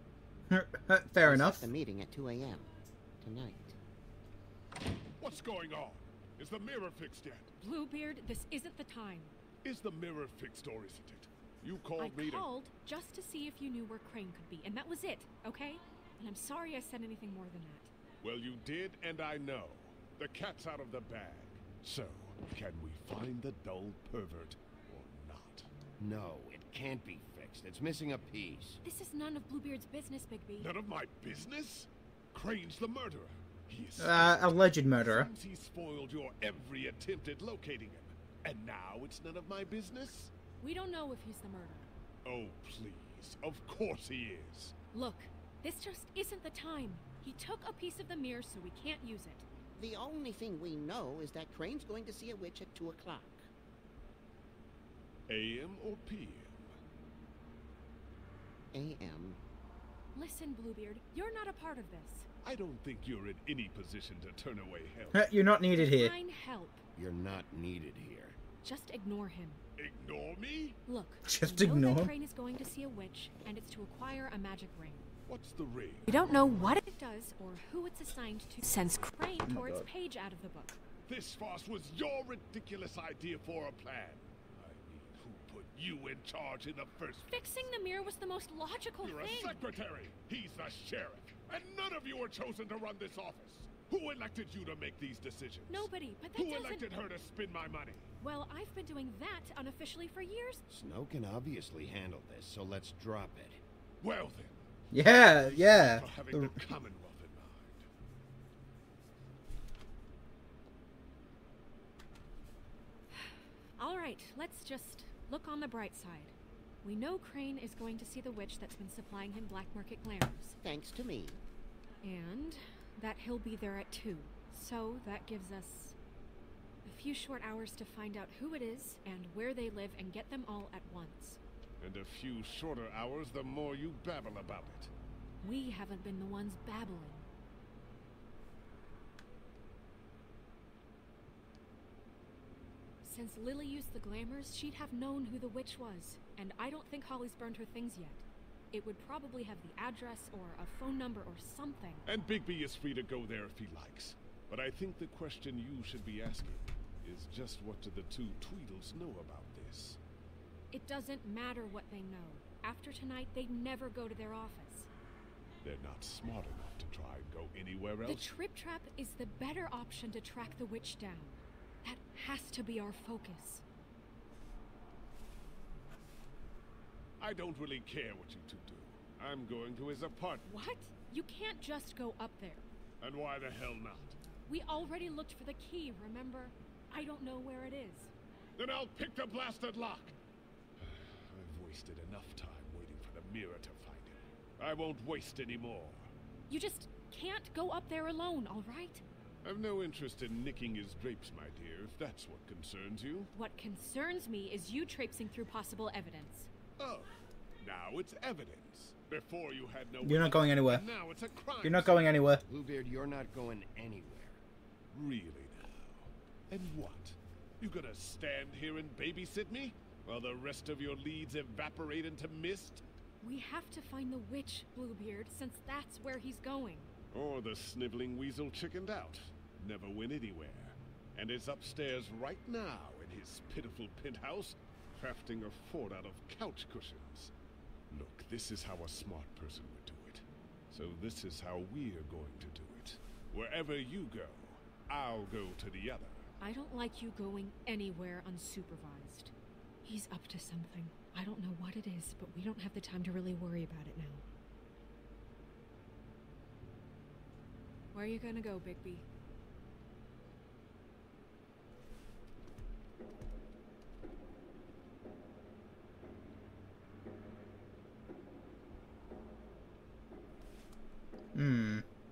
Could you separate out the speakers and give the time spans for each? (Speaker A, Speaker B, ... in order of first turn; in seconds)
Speaker A: 0.5-1.7, 34.0-35.3, 65.1-66.1, 71.2-72.1, 79.5-79.9, 104.9-106.5, 210.0-210.8, 211.6-212.4, 271.4-271.8
Speaker B: 1.2-2.7, 3.2-3.8, 49.8-53.5, 58.7-59.4, 120.6-121.4
Speaker C: 5.2-7.5, 9.6-12.5, 18.2-25.7, 30.6-40.3, 42.2-44.7, 55.3-56.8, 62.4-65.3, 69.8-70.8, 75.3-76.1, 81.1-87.7, 89.0-98.1, 104.0-107.9, 131.8-134.9, 152.1-160.0, 165.6-168.3, 177.2-180.5, 183.0-184.2, 188.6-190.2, 190.8-196.1, 199.4-203.3, 206.8-212.3, 214.9-222.8, 227.1-237.3, 237.9-246.2
Speaker D: 7.6-9.3, 12.0-17.9, 28.8-30.7, 40.6-41.9, 44.9-49.5, 60.1-62.3, 65.7-66.8, 68.6-69.6, 70.9-75.1, 76.0-80.8, 87.3-89.6, 95.7-96.9, 98.2-100.6, 113.1-120.6, 122.0-126.0, 126.8-131.4, 135.4-137.3, 143.0-152.0, 160.7-164.9, 168.0-173.6, 180.4-182.7, 184.5-188.1, 196.5-199.0, 203.3-206.5, 223.2-226.9, 246.4-249.3, 249.8-254.2, 257.9-259.0
Speaker E: 26.0-28.8, 67.0-68.4, 100.7-103.6, 212.4-214.4